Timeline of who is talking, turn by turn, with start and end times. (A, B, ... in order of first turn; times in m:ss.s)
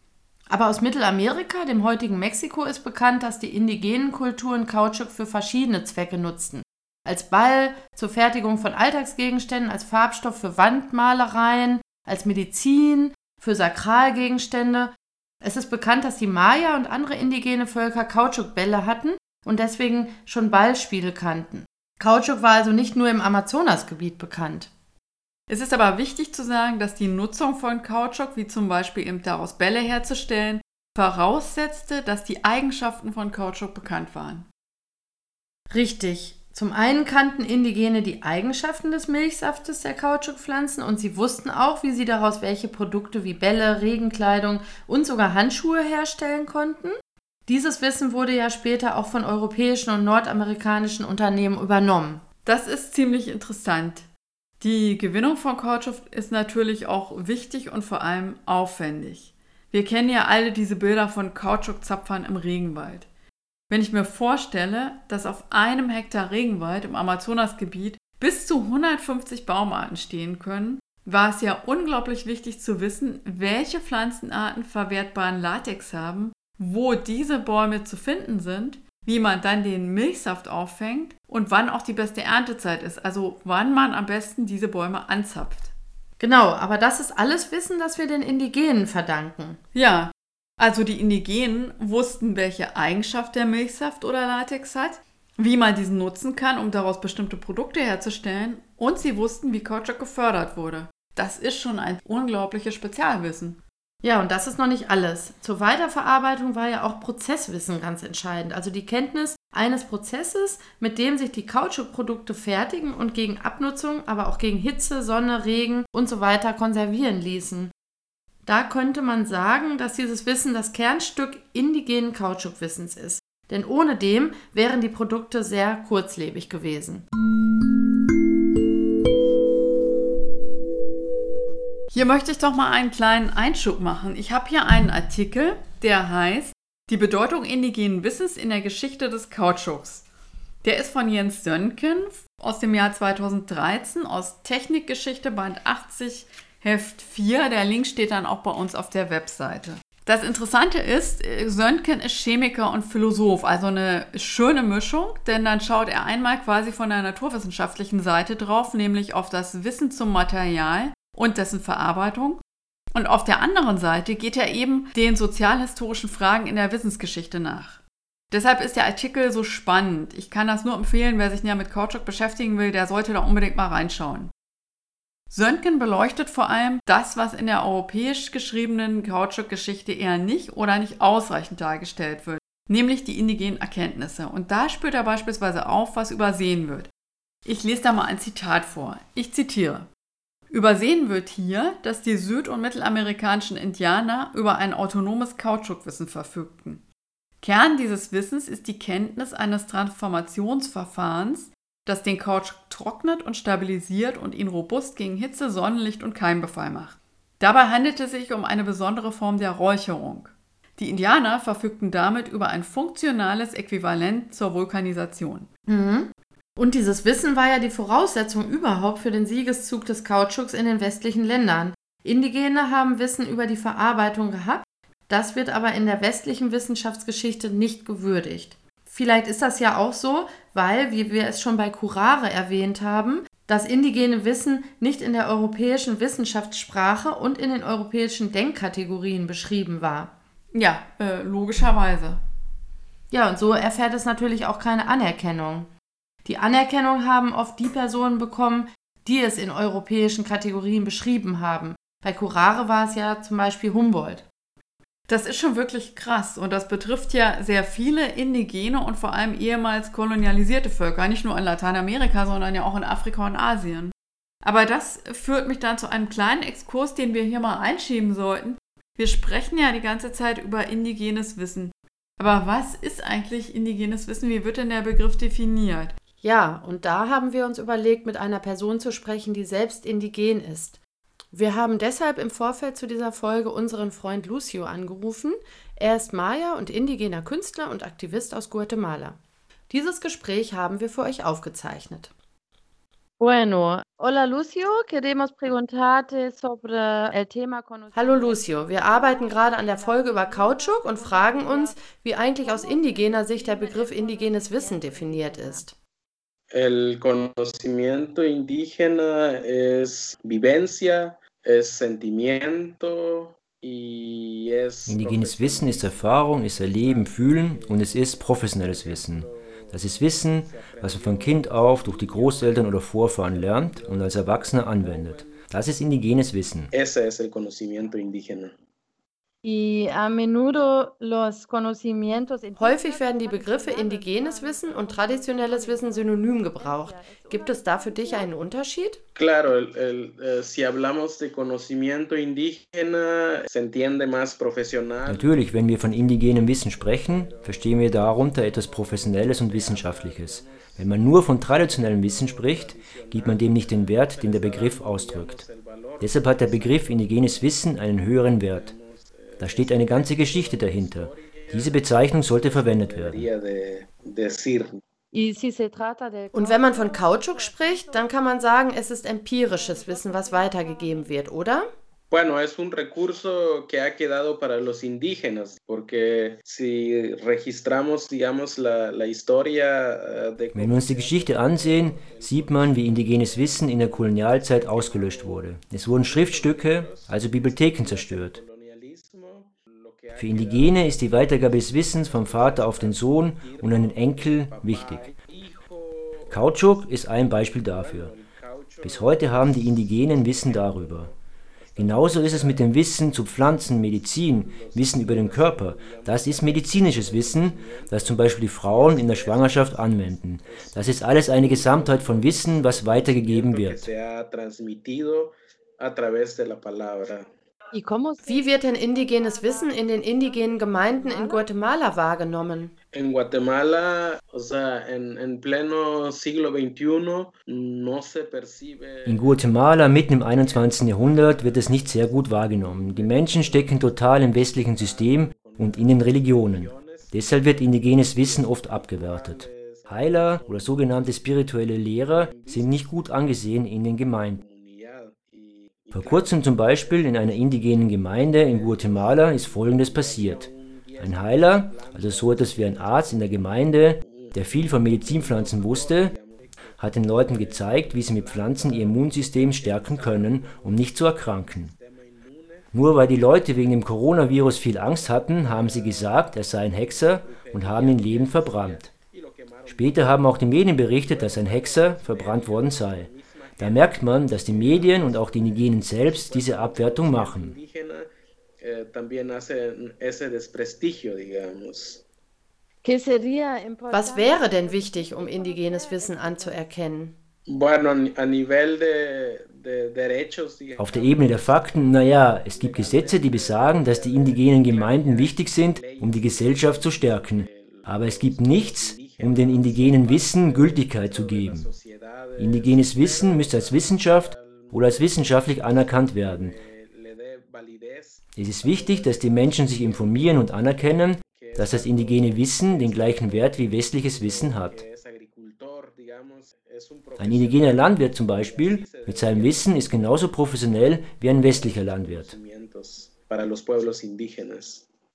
0:00.5-0:24.7 A
0:25.5-0:34.5 B
0:35.7-0:47.0 A
0:47.5-0:52.2 A
0:52.4-0:54.1 B
0:54.6-1:03.1 B
1:03.7-1:25.7 B
1:26.2-1:29.6 A
1:29.7-1:43.6 B
1:44.0-1:57.7 A
1:58.4-2:07.0 A
2:11.9-2:20.0 B
2:20.6-2:42.4 B
2:42.9-2:54.3 B
2:55.3-3:06.9 B
3:07.4-3:09.9 B
3:10.5-3:16.8 B
3:17.4-3:35.5 B
3:35.7-4:00.1 A
4:00.5-4:02.2 B
4:03.1-4:05.7 A
4:06.2-4:14.2 A
4:15.1-4:35.9 B
4:36.2-4:40.8 A
4:41.3-4:49.2 A
4:49.7-4:52.1 A
4:53.2-5:05.7 C
4:57.9-5:05.7 A
5:06.5-5:25.5 D
5:14.9-5:26.7 E
5:26.7-5:28.5 D
5:29.4-5:38.3 C
5:32.6-5:39.0 A
5:39.2-6:04.8 D
5:45.0-5:55.4 E
5:56.0-5:58.7 E
5:59.4-6:03.3 E
6:05.1-6:05.6 A
6:05.3-6:08.5 C
6:06.3-6:11.7 A
6:09.4-6:11.2 C
6:12.1-6:57.3 D
6:20.5-6:28.4 E
6:30.2-6:35.0 E
6:36.3-6:38.1 E
6:38.8-6:41.1 E
6:41.8-6:53.8 E
6:57.7-7:01.5 C
6:58.2-7:02.7 A
7:02.9-7:23.2 D
7:09.0-7:24.4 E
7:24.3-7:58.1 D
7:25.9-7:30.5 E
7:31.0-7:36.1 E
7:36.8-7:41.7 E
7:42.7-7:48.8 E
7:49.7-7:57.5 E
7:58.6-8:02.0 D
8:02.8-8:06.7 C
8:03.9-8:07.2 A
8:07.5-8:44.9 D
8:10.8-8:21.6 E
8:22.4-8:26.5 E
8:28.4-8:34.8 E
8:37.2-8:42.3 E